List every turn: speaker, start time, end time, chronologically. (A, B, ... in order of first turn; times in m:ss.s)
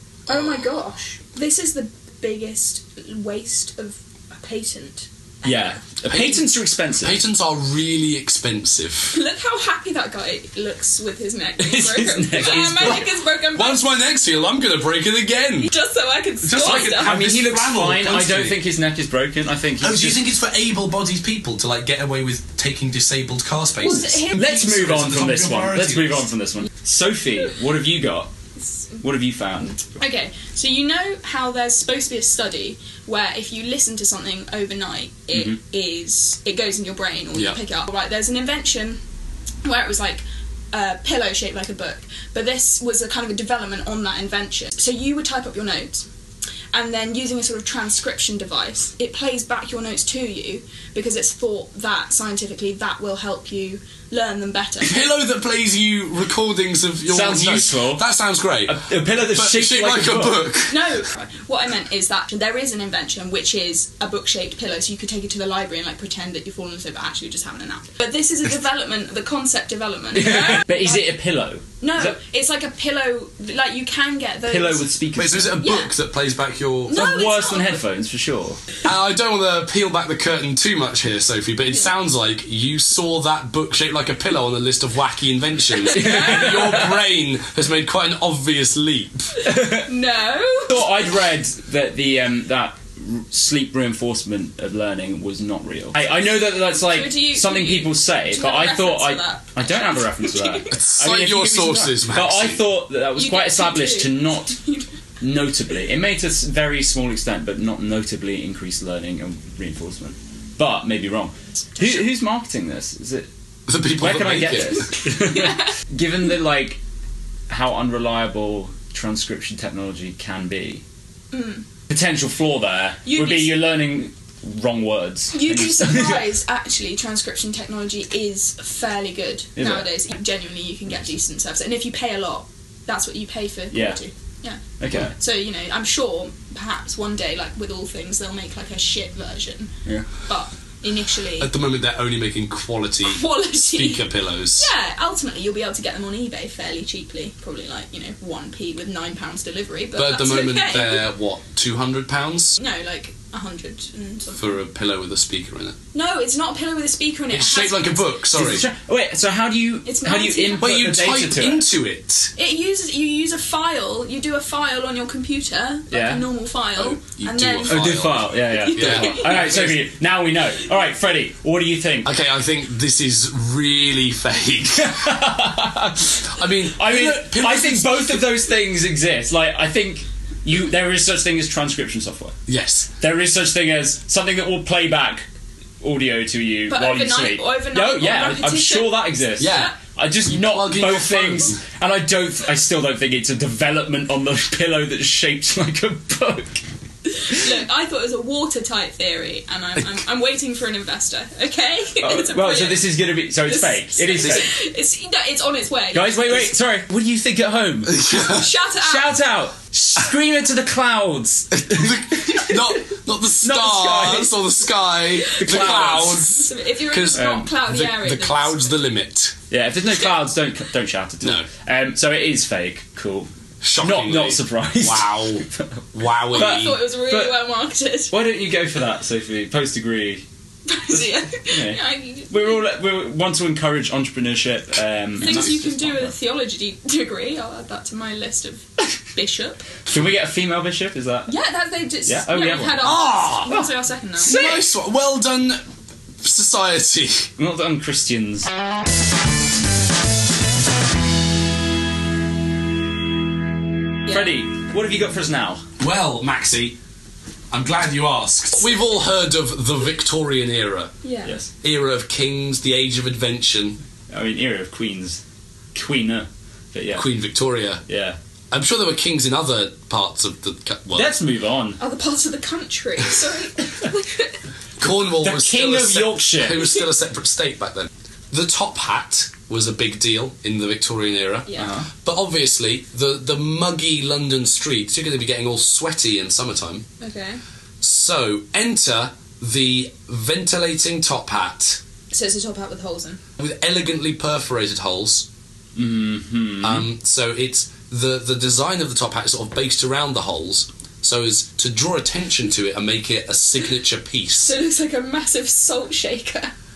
0:00.3-0:00.7 A
0:00.3-0:05.8 B
0:05.4-0:07.2 C
0:06.1-0:06.4 A
0:07.0-0:09.2 A
0:09.1-0:13.8 B
0:11.6-0:13.1 C
0:13.5-0:15.7 A
0:15.6-0:17.2 B
0:16.4-0:18.6 A
0:16.6-0:20.2 C
0:19.8-0:26.3 A
0:23.8-0:24.6 B
0:24.3-0:28.3 C
0:29.0-0:29.9 C
0:30.0-0:39.0 B
0:39.6-0:46.0 B
0:46.7-0:55.0 B
0:54.8-1:01.0 A
0:57.1-0:58.0 C
0:58.6-1:00.5 C
1:00.7-1:11.1 B
1:10.1-1:12.2 C
1:11.8-1:15.0 B
1:14.5-1:15.6 C
1:15.1-1:17.1 A
1:15.6-1:15.9 B
1:16.8-1:17.8 B
1:16.9-1:18.6 C
1:18.8-1:29.3 A
1:25.8-1:26.6 B
1:25.9-1:27.0 C
1:29.4-1:29.9 C
1:29.4-1:30.9 B
1:30.7-1:44.5 C
1:36.6-1:40.8 B
1:40.7-1:42.6 A
1:43.2-1:44.9 B
1:45.2-1:53.3 C
1:53.7-1:54.9 A
1:54.0-1:56.8 C
1:55.2-1:55.7 B
1:57.5-2:00.8 C
2:01.3-2:01.6 B
2:01.9-2:06.2 C
2:03.0-2:03.6 B
2:05.3-2:14.6 B
2:09.6-2:09.9 C
2:13.7-2:14.0 C
2:14.8-2:15.1 C
2:15.1-2:19.7 B
2:20.2-2:21.5 B
2:21.4-2:24.7 A
2:23.0-2:31.1 B
2:30.0-2:32.6 A
2:32.6-2:34.6 B
2:34.4-2:35.8 A
2:35.9-2:38.0 B
2:37.3-2:38.6 A
2:38.3-2:41.6 C
2:39.8-2:40.8 B
2:40.6-2:42.3 A
2:42.4-2:49.5 B
2:45.9-2:46.3 C
2:46.8-2:49.9 A
2:47.6-2:52.1 C
2:52.0-2:55.1 A
2:54.8-3:02.3 C
2:56.3-2:58.2 A
3:02.5-3:02.9 A
3:03.0-3:05.2 C
3:05.8-3:16.6 C
3:06.7-3:09.8 B
3:09.4-3:09.7 A
3:10.2-3:11.6 A
3:17.1-3:22.9 B
3:22.0-3:24.5 C
3:23.4-3:26.5 B
3:24.2-3:24.4 A
3:25.9-3:28.1 C
3:27.9-3:28.5 A
3:28.1-3:29.2 B
3:28.8-3:32.7 C
3:31.5-3:39.4 A
3:33.4-3:34.4 C
3:35.1-3:38.7 B
3:35.3-3:36.2 C
3:37.1-3:37.5 C
3:39.5-3:47.4 C
3:43.6-3:46.8 A
3:46.3-3:48.1 B
3:48.1-3:50.2 C
3:50.7-3:52.6 B
3:50.9-3:56.1 C
3:55.2-3:59.7 B
3:55.2-3:55.5 A
3:59.8-4:01.3 C
4:01.3-4:04.4 B
4:02.0-4:03.7 C
4:02.8-4:03.6 A
4:04.2-4:05.6 A
4:04.2-4:04.6 C
4:06.2-4:07.3 A
4:07.4-4:08.5 C
4:14.0-4:15.6 C
4:15.8-4:16.8 A
4:17.5-4:20.9 A
4:21.0-4:21.3 B
4:21.2-4:21.5 C
4:21.6-4:23.8 A
4:24.1-4:25.2 C
4:25.7-4:27.1 C
4:26.9-4:27.8 A
4:27.9-4:28.2 C
4:28.5-4:31.1 A
4:30.9-4:31.8 C
4:31.8-4:34.4 B
4:34.8-4:46.8 A
4:35.1-4:36.7 C
4:41.4-4:41.7 B
4:41.6-4:41.9 C
4:47.0-4:47.4 B
4:47.8-4:51.8 A
4:52.1-4:53.2 B
4:53.4-4:55.3 A
4:55.8-4:56.9 C
4:56.6-5:04.5 A
5:04.4-5:06.5 B